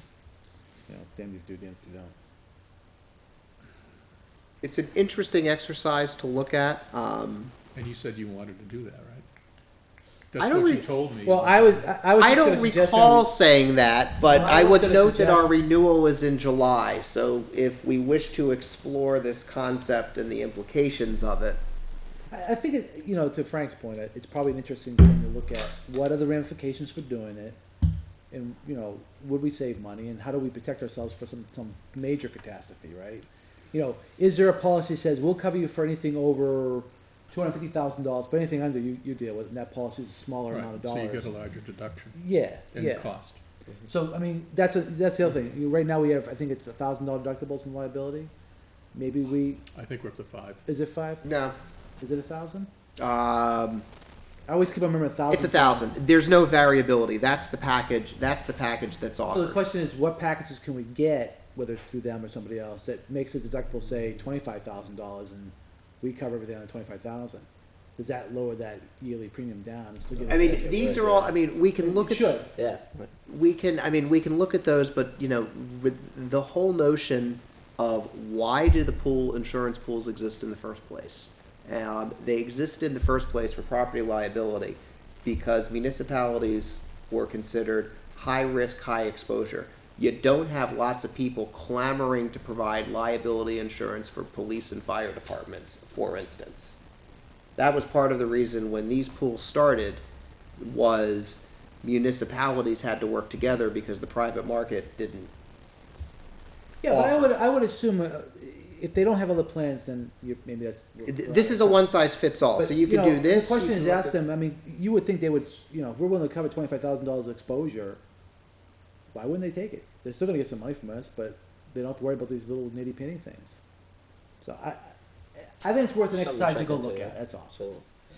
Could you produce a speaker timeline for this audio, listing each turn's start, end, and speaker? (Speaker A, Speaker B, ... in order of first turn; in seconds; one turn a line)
Speaker A: 0.5-2.1
Speaker B: 4.6-7.5
Speaker C: 7.7-9.2
Speaker C: 10.3-11.9
Speaker A: 10.4-13.3
Speaker B: 12.2-21.6
Speaker A: 14.2-15.5
Speaker A: 22.3-27.6
Speaker A: 28.3-41.3
Speaker C: 40.5-42.2
Speaker A: 42.1-43.1
Speaker C: 42.7-43.4
Speaker A: 43.9-48.3
Speaker A: 48.9-49.6
Speaker C: 49.7-50.6
Speaker A: 50.6-51.2
Speaker B: 51.2-51.5
Speaker A: 52.0-52.7
Speaker B: 53.0-53.9
Speaker A: 54.5-55.9
Speaker B: 55.3-59.6
Speaker A: 59.3-72.5
Speaker B: 70.3-72.4
Speaker D: 72.6-73.1
Speaker B: 73.2-96.8
Speaker B: 97.6-100.0
Speaker B: 100.6-105.3
Speaker A: 106.8-111.8
Speaker B: 106.9-107.3
Speaker B: 111.0-114.1
Speaker A: 112.5-118.0
Speaker A: 119.1-123.6
Speaker A: 124.4-127.5
Speaker D: 126.1-127.8